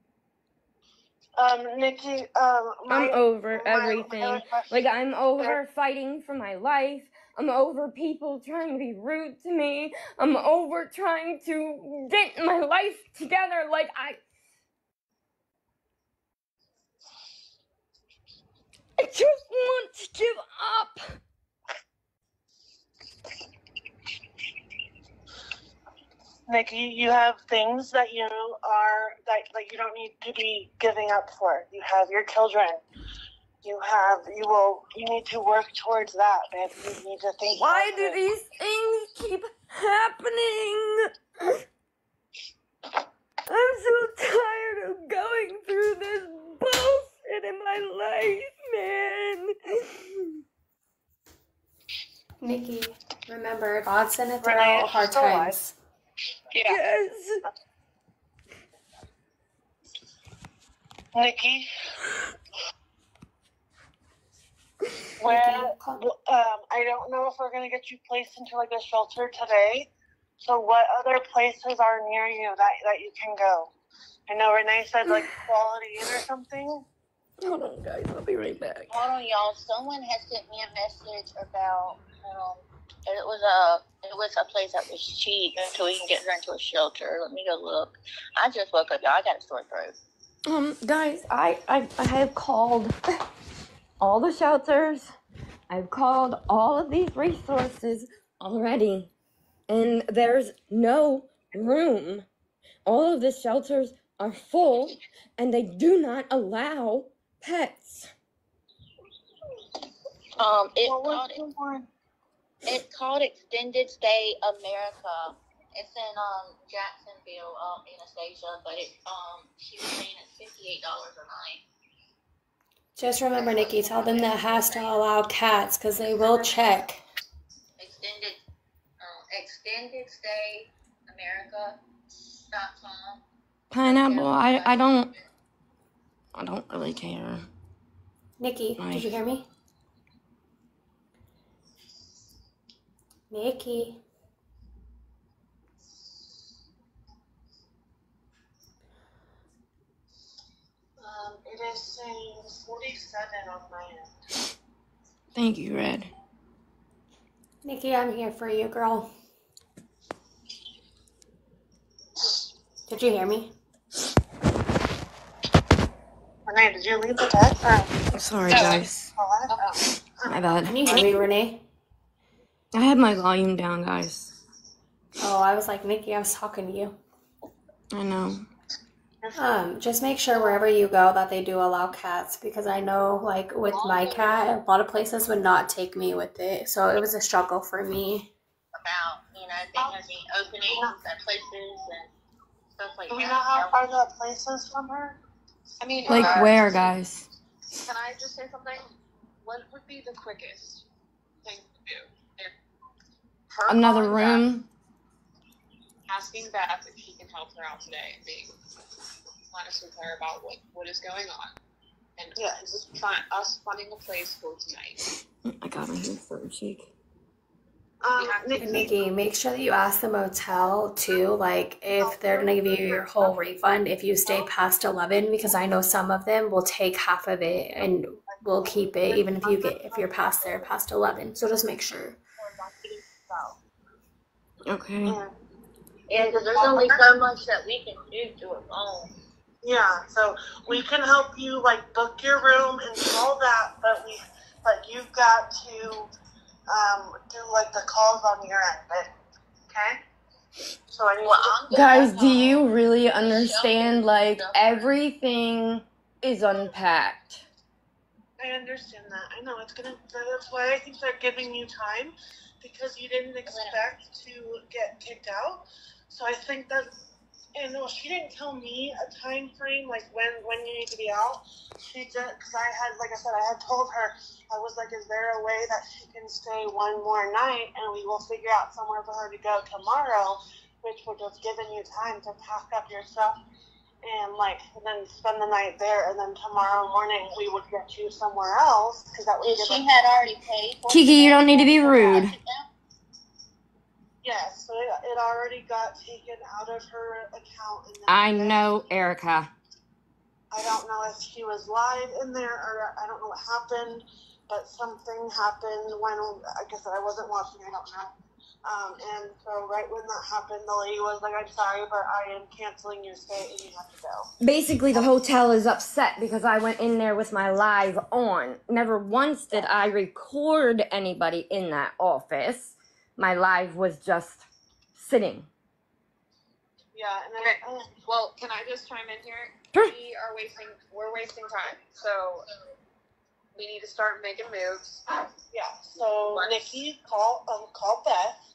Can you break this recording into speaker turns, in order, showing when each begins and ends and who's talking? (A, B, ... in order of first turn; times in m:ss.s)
0:01.4-0:05.6 A
0:02.9-0:14.2 B
0:19.0-0:21.2 B
0:26.5-0:32.8 A
0:33.6-0:38.2 A
0:37.5-0:41.6 B
0:43.5-0:50.4 B
0:52.4-0:55.8 C
0:54.4-0:55.6 A
0:56.5-0:56.8 D
0:56.6-0:57.4 B
1:01.1-1:01.7 A
1:05.2-1:13.7 A
1:14.3-1:16.8 A
1:17.4-1:19.0 B
1:18.9-1:29.9 E
1:30.4-1:33.0 B
1:34.0-1:35.1 B
1:35.7-1:39.1 B
1:39.7-1:42.2 B
1:42.8-1:48.1 B
1:50.4-1:51.4 E
1:50.8-1:51.9 A
1:52.6-2:01.6 E
2:03.0-2:07.0 C
2:03.3-2:05.0 E
2:06.2-2:06.8 E
2:07.8-2:08.4 E
2:09.0-2:11.8 E
2:12.4-2:13.2 E
2:13.7-2:15.1 B
2:13.8-2:15.2 E
2:16.3-2:17.4 B
2:18.4-2:19.5 C
2:18.8-2:19.1 B
2:23.3-2:24.0 C
2:31.0-2:34.1 A
2:35.3-2:36.1 B
2:37.6-2:39.1 C
2:42.9-2:43.5 C
2:46.4-2:51.1 A
2:48.1-2:49.0 B
2:48.5-2:48.9 D
2:49.5-2:49.8 D
2:50.2-2:50.8 B
2:50.6-2:51.6 C
2:52.7-2:54.3 B
2:55.2-2:57.0 C
2:57.9-2:58.5 B
2:59.2-2:59.5 A
2:59.3-3:08.3 C
3:03.7-3:04.5 E
3:08.7-3:12.1 E
3:09.8-3:10.0 A
3:10.7-3:11.0 A
3:12.8-3:13.8 E
3:13.1-3:15.2 A
3:15.8-3:16.7 D
3:16.1-3:17.3 B
3:17.8-3:18.8 D
3:19.4-3:20.8 D
3:21.4-3:22.5 D
3:23.5-3:24.4 D
3:23.7-3:24.6 B
3:26.1-3:28.5 D
3:29.5-3:31.5 D
3:32.2-3:35.1 D
3:32.4-3:32.8 A
3:35.4-3:36.9 B
3:38.0-3:38.9 A
3:38.2-3:38.9 D
3:38.6-3:52.2 C
3:42.0-3:43.3 A
3:48.5-3:50.5 A
3:52.6-3:53.5 A
3:54.6-3:55.2 B
3:55.0-3:55.3 A
3:56.1-3:59.1 E
3:56.2-3:57.0 A
3:59.6-4:06.1 A
4:06.7-4:09.1 A
4:09.7-4:10.0 A
4:10.9-4:11.6 A
4:11.2-4:14.9 E
4:11.7-4:17.4 B
4:18.4-4:26.9 A
4:23.5-4:23.8 E
4:27.5-4:43.4 A
4:44.0-4:49.9 A
4:49.4-4:52.7 E
4:50.9-4:52.3 B
4:54.2-4:58.7 A
4:58.1-4:59.5 B
5:00.5-5:08.1 A
5:08.6-5:14.3 A
5:14.4-5:25.5 B
5:26.9-5:27.9 A
5:27.4-5:32.4 D
5:33.5-5:35.0 D
5:35.5-5:38.4 A
5:36.3-5:36.6 D